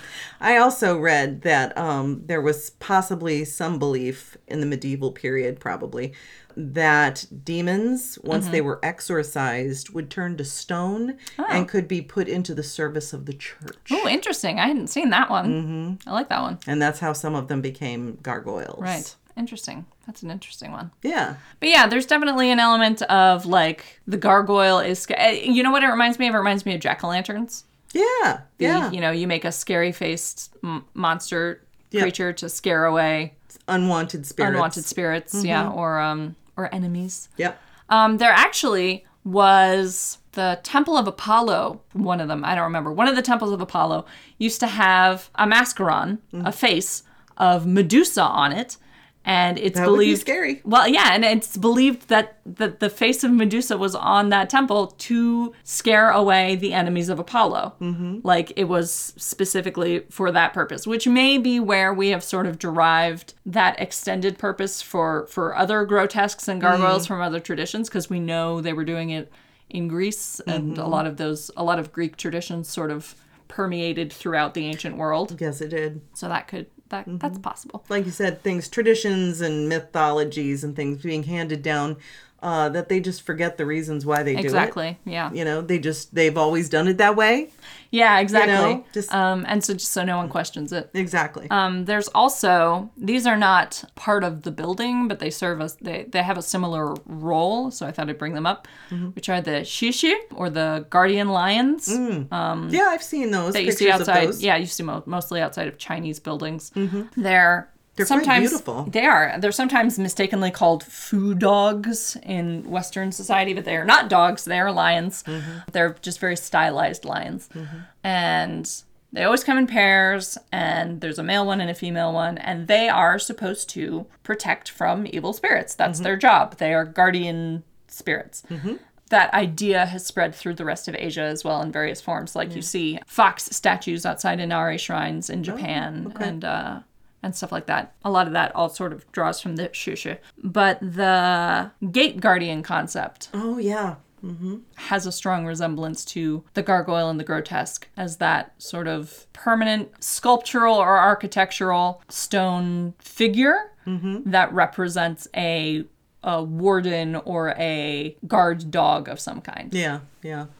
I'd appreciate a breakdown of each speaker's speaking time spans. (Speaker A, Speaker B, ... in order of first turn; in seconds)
Speaker A: 0.4-14.1, 15.4-16.0, 16.6-19.1, 21.0-21.4, 27.9-28.9, 33.7-35.7, 49.7-50.6, 57.8-58.2, 66.6-67.1, 70.5-71.0, 75.3-76.0, 77.1-84.8, 85.3-87.5, 88.3-89.1, 90.9-91.5, 101.9-104.4, 106.8-107.1, 108.0-108.9, 115.3-115.6, 117.5-117.8, 128.5-128.8, 135.5-136.3, 143.3-144.6, 153.9-154.3, 159.7-160.5
Speaker B: 8.3-8.6, 11.4-11.7, 13.9-16.6, 18.8-20.9, 21.6-27.6, 28.6-33.3, 34.4-37.3, 37.9-75.4, 76.2-77.8, 84.3-85.3, 87.9-90.9, 91.5-102.8, 103.5-128.5, 129.1-143.3, 144.8-153.7, 154.2-159.8